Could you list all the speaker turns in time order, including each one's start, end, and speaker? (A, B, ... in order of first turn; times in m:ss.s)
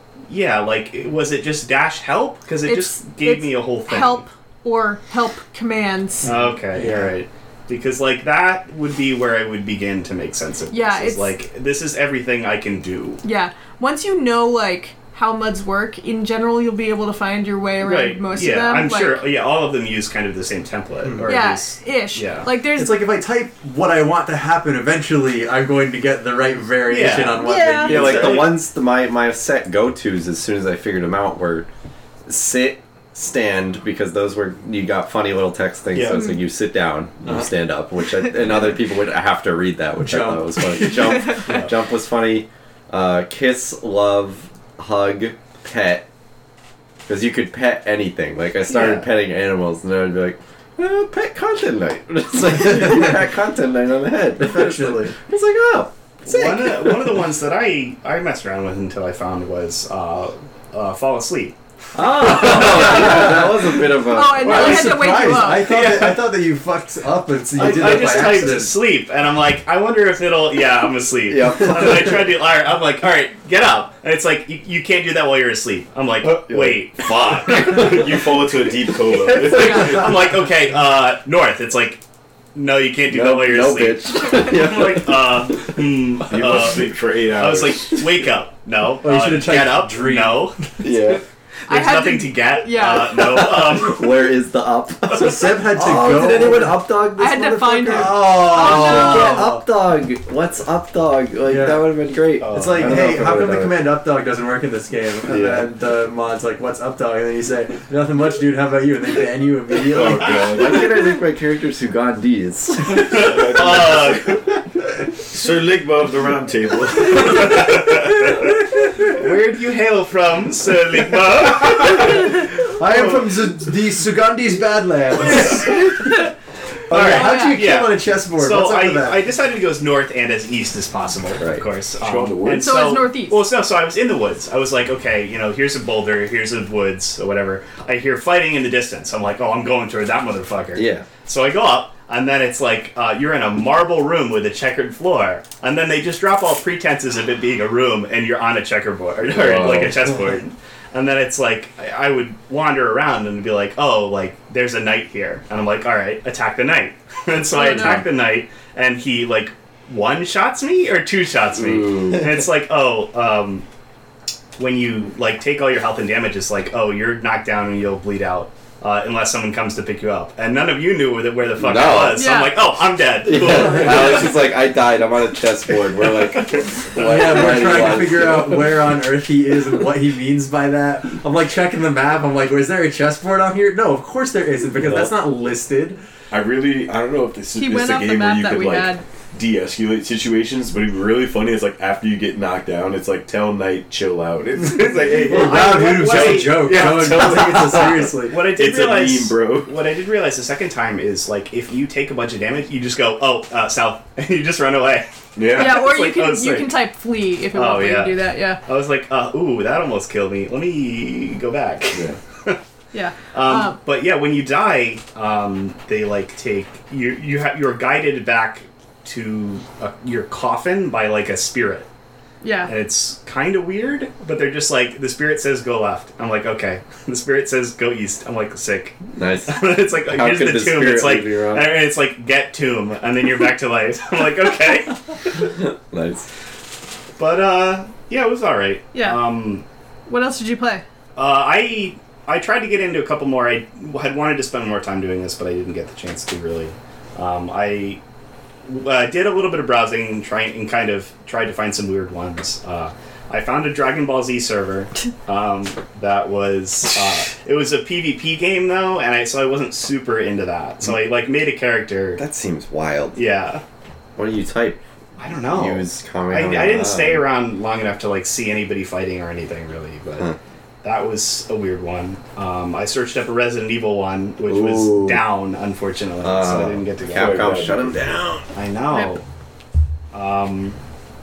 0:00.3-0:04.2 A
0:02.6-0:06.3 B
0:06.2-0:13.2 A
0:06.3-0:07.1 C
0:10.7-0:11.3 B
0:13.2-0:19.2 B
0:17.8-0:22.5 A
0:21.3-0:23.0 B
0:22.7-0:28.6 C
0:26.8-0:28.5 A
0:27.4-0:28.2 B
0:27.8-0:31.7 D
0:32.3-0:46.0 D
0:35.9-0:36.4 A
0:36.0-0:36.3 B
0:40.0-0:41.3 C
0:41.4-0:41.7 A
0:47.1-0:56.8 D
0:48.7-0:49.1 A
0:54.4-0:55.1 C
0:56.2-1:01.6 A
1:02.0-1:03.5 C
1:02.0-1:05.1 D
1:04.1-1:05.7 B
1:04.4-1:08.8 C
1:04.5-1:06.2 A
1:07.6-1:18.0 A
1:11.3-1:12.1 D
1:16.3-1:20.1 E
1:16.5-1:16.7 D
1:19.3-1:22.0 A
1:22.6-1:30.6 A
1:23.1-1:25.4 D
1:26.3-1:28.2 E
1:29.0-1:30.5 C
1:30.8-1:31.2 D
1:31.7-1:33.5 B
1:31.7-1:34.3 A
1:33.2-1:43.8 D
1:35.2-1:39.6 C
1:37.2-1:39.6 B
1:41.4-1:41.9 C
1:42.4-1:43.1 A
1:42.5-1:50.6 C
1:45.3-1:45.7 D
1:49.9-1:50.9 E
1:49.9-1:53.8 D
1:52.9-1:54.4 A
1:53.1-1:54.2 E
1:55.3-1:58.2 E
1:59.0-2:03.3 A
2:02.1-2:06.3 C
2:05.3-2:05.8 A
2:06.9-2:09.2 C
2:06.9-2:43.6 A
2:07.0-2:07.6 B
2:11.4-2:11.6 D
2:12.0-2:12.8 E
2:12.6-2:13.4 B
2:20.7-2:21.1 D
2:29.3-2:29.9 E
2:37.5-2:38.1 B
2:41.6-2:42.4 D
2:44.6-2:54.4 A
2:51.6-2:52.3 D
2:52.1-2:52.6 B
2:53.2-2:58.7 D
2:53.5-2:54.2 C
2:56.9-3:06.0 C
3:06.3-3:17.0 E
3:07.6-3:09.0 B
3:14.8-3:26.8 A
3:15.0-3:18.4 C
3:18.4-3:19.7 E
3:25.4-3:25.9 E
3:25.5-3:28.6 B
3:27.5-3:32.6 A
3:32.9-3:33.8 B
3:33.3-3:41.9 A
3:42.4-3:42.7 B
3:42.6-3:49.0 A
3:49.1-3:51.7 D
3:49.5-3:55.0 A
3:55.4-3:56.3 D
3:57.2-3:59.6 A
3:58.9-3:59.4 B
4:00.1-4:00.8 B
4:01.2-4:08.0 A
4:08.6-4:22.2 A
4:22.2-4:23.2 D
4:23.1-4:23.6 A
4:24.2-4:24.8 D
4:25.2-4:30.3 A
4:25.5-4:27.2 D
4:30.8-4:37.7 A
4:34.5-4:35.2 D
4:36.2-4:38.4 D
4:37.1-4:38.2 E
4:38.5-4:39.2 A
4:40.1-4:40.8 A